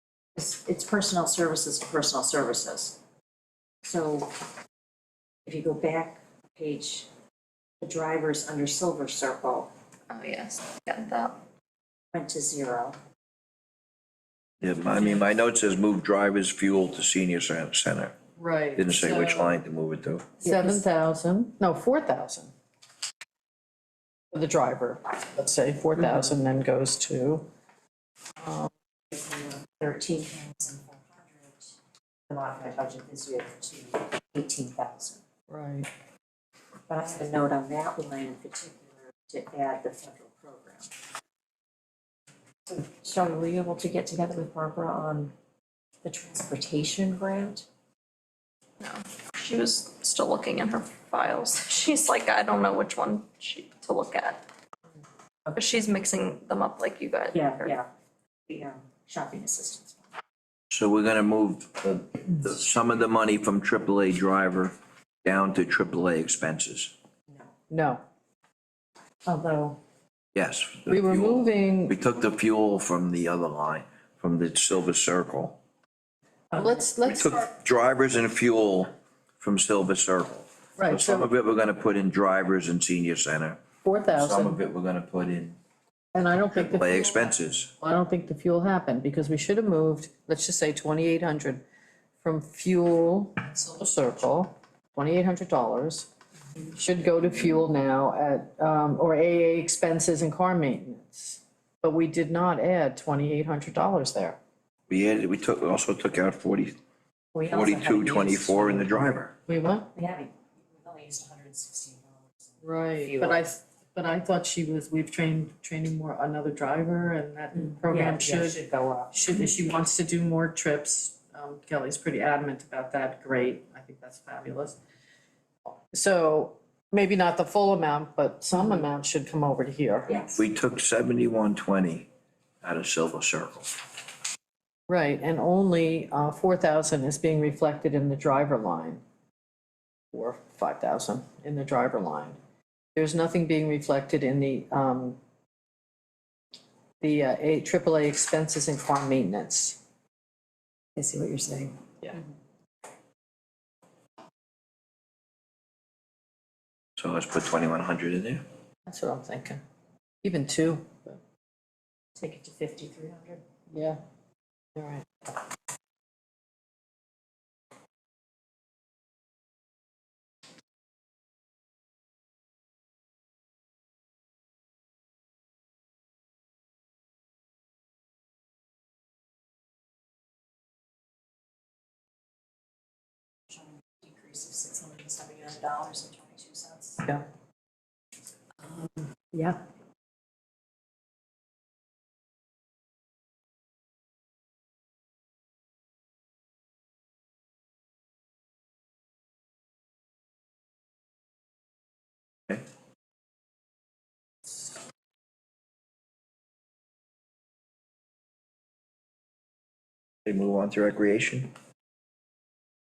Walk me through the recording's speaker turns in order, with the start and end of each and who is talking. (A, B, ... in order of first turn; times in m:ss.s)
0:00.4-0:03.0 A
0:03.8-0:04.4 A
0:05.4-0:07.1 A
0:07.8-0:09.7 A
0:10.1-0:11.4 B
0:12.1-0:13.0 A
0:14.6-0:18.1 C
0:18.4-0:19.6 D
0:18.8-0:20.3 C
0:20.4-0:22.5 D
0:20.4-0:20.8 A
0:24.3-0:27.5 D
0:28.4-0:28.7 D
0:29.1-0:31.8 A
0:32.3-0:35.2 A
0:35.5-0:35.9 D
0:36.9-0:40.9 A
0:42.7-0:45.3 A
0:46.0-0:47.6 A
0:48.8-0:54.4 B
0:55.5-0:57.7 B
0:57.3-0:57.9 A
0:58.5-1:00.1 A
1:00.7-1:06.9 C
1:07.7-1:08.0 D
1:09.2-1:09.7 D
1:10.3-1:15.6 C
1:10.9-1:11.9 D
1:16.5-1:17.5 D
1:17.0-1:25.6 C
1:20.8-1:21.3 D
1:23.8-1:24.6 D
1:26.1-1:31.6 D
1:26.5-1:27.7 C
1:32.2-1:36.1 D
1:36.7-1:44.4 D
1:44.9-1:46.8 C
1:47.3-1:49.1 A
1:47.5-1:49.3 C
1:49.5-1:49.9 D
1:49.9-1:53.5 A
1:52.6-1:58.6 D
1:57.5-1:59.2 A
1:59.1-2:04.8 D
2:05.9-2:10.2 D
2:10.1-2:10.4 A
2:10.4-2:12.1 C
2:12.6-2:13.7 C
2:14.9-2:19.0 D
2:20.1-2:22.4 D
2:22.9-2:25.2 D
2:27.0-2:29.8 D
2:31.0-2:32.2 A
2:37.0-2:38.4 C
2:38.8-2:39.6 D
2:40.2-2:41.2 D
2:42.2-2:43.4 A
2:43.7-2:44.0 D
2:44.8-2:45.0 D
3:03.5-3:07.1 A
3:08.6-3:09.6 A
3:30.2-3:31.5 C